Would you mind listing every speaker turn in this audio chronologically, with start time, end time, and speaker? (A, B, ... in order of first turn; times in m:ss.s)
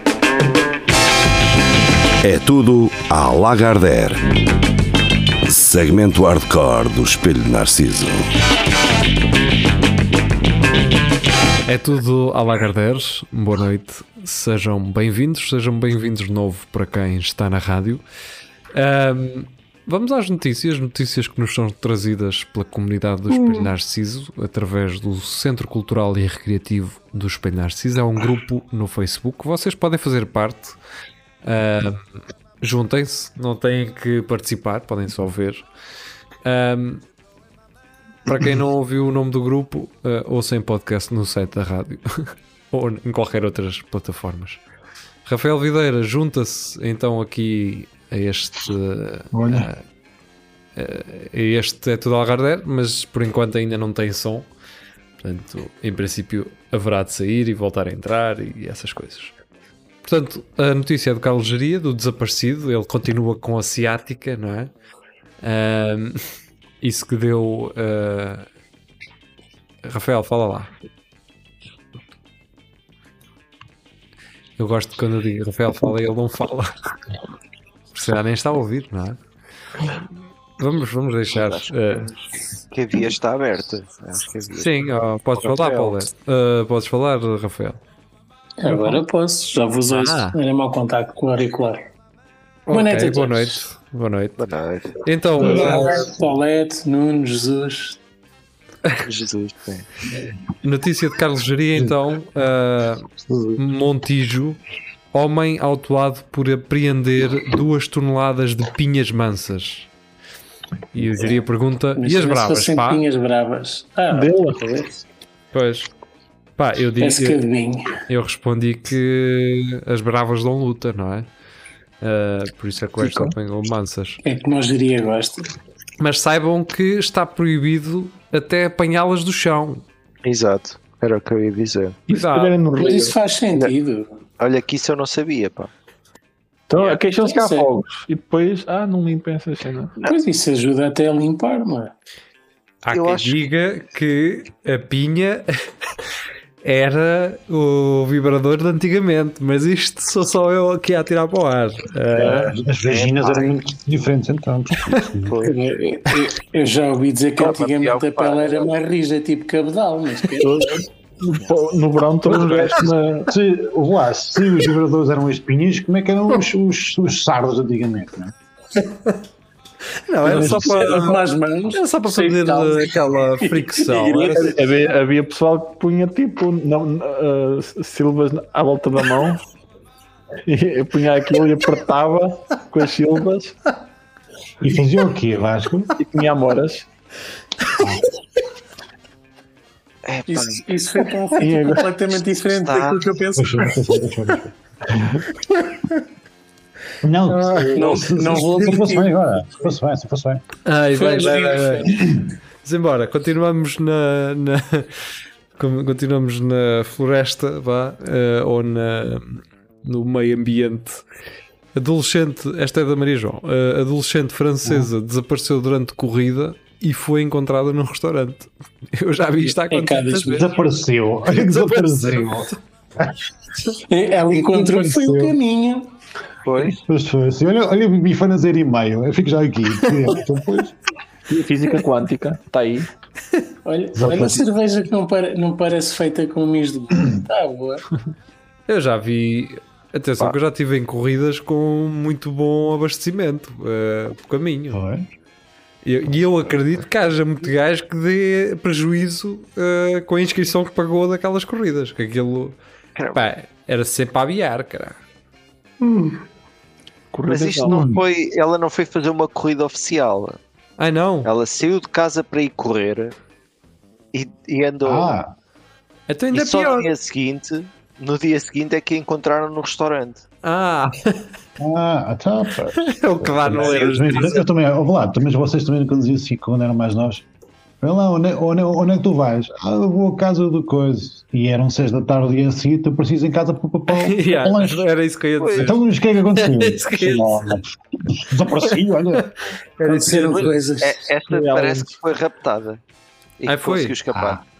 0:02.2-0:04.3 A
0:05.4-0:08.3 A
0:11.6-0:18.0 B
0:18.7-0:30.8 B
0:31.4-0:32.0 B
0:32.6-0:35.6 B
0:36.4-0:37.0 B
0:38.2-0:44.6 B
0:45.2-0:49.8 B
0:49.3-0:49.7 C
0:50.8-0:54.5 B
0:55.2-0:59.3 B
1:00.0-1:04.7 B
1:05.4-1:06.2 B
1:06.8-1:08.5 B
1:09.8-1:10.7 B
1:14.6-1:16.7 B
1:17.9-1:19.2 B
1:20.6-1:22.1 B
1:21.3-1:26.0 D
1:24.6-1:27.8 B
1:28.6-1:31.8 E
1:29.9-1:30.4 B
1:32.6-1:34.4 B
1:32.7-1:33.6 E
1:34.4-1:35.0 D
1:35.0-1:36.1 B
1:35.4-1:38.0 E
1:35.4-1:36.1 C
1:39.0-1:39.9 D
1:40.6-1:44.6 B
1:43.2-1:43.6 C
1:45.1-1:49.9 B
1:50.9-1:53.0 B
1:52.0-1:55.0 E
1:54.1-1:54.6 F
1:55.5-1:55.9 B
1:56.6-1:57.4 B
1:57.0-1:58.0 E
1:58.1-2:01.3 B
2:02.0-2:04.2 B
2:03.0-2:03.3 F
2:04.2-2:05.5 E
2:06.0-2:09.8 B
2:10.2-2:12.0 D
2:12.1-2:13.2 F
2:12.1-2:12.6 B
2:12.8-2:14.2 E
2:14.4-2:15.7 D
2:16.7-2:19.9 F
2:17.2-2:17.7 E
2:20.0-2:21.9 E
2:22.8-2:25.5 B
2:22.9-2:23.4 D
2:26.6-2:32.5 B
2:32.2-2:35.4 C
2:32.8-2:34.0 D
2:35.2-2:35.5 D
2:35.4-2:40.7 E
2:37.4-2:38.7 D
2:40.4-2:43.3 F
2:42.3-2:42.8 D
2:43.3-2:48.3 C
2:50.1-2:51.2 B
2:50.2-2:54.6 E
2:50.2-2:50.8 C
2:51.7-2:54.6 B
2:54.3-2:59.4 F
3:00.4-3:03.6 F
3:04.6-3:05.9 C
3:06.0-3:06.9 F
3:10.0-3:10.6 D
3:10.3-3:14.0 E
3:11.4-3:11.8 F
3:12.6-3:13.0 D
3:13.4-3:14.5 C
3:17.0-3:20.4 C
3:17.4-3:17.8 F
3:17.7-3:19.3 E
3:20.6-3:21.9 B
3:20.9-3:21.9 E
3:22.6-3:24.9 B
3:25.6-3:31.0 B
3:31.7-3:40.5 B
3:39.5-3:40.5 E
3:40.2-3:43.1 C
3:41.3-3:42.6 B
3:43.9-3:45.9 E
3:44.4-3:45.4 C
3:46.4-3:46.8 D
3:46.8-3:50.7 C
3:51.3-3:52.9 F
3:53.6-3:57.8 E
3:53.9-3:54.4 C
3:58.7-4:04.8 B
4:04.7-4:05.0 C
4:05.8-4:12.6 B
4:13.0-4:13.2 D
4:13.1-4:15.0 B
4:17.1-4:17.8 F
4:17.2-4:20.4 D
4:17.6-4:18.0 C
4:20.8-4:21.3 B
4:21.2-4:23.1 D
4:24.1-4:25.2 D
4:24.8-4:25.3 C
4:26.1-4:26.9 B
4:26.3-4:30.2 D
4:30.4-4:31.2 B
4:31.6-4:37.2 C
4:32.8-4:34.4 B
4:33.5-4:34.4 D
4:37.8-4:44.8 C
4:43.9-4:45.8 B
4:45.4-4:45.7 D
4:45.6-4:49.5 C
4:46.4-4:47.6 B
4:49.8-4:50.5 B
4:49.8-4:51.1 E
4:50.0-4:52.8 D
4:51.3-4:51.9 F
4:53.4-4:54.4 D
4:53.4-4:54.0 B
4:54.1-4:54.4 C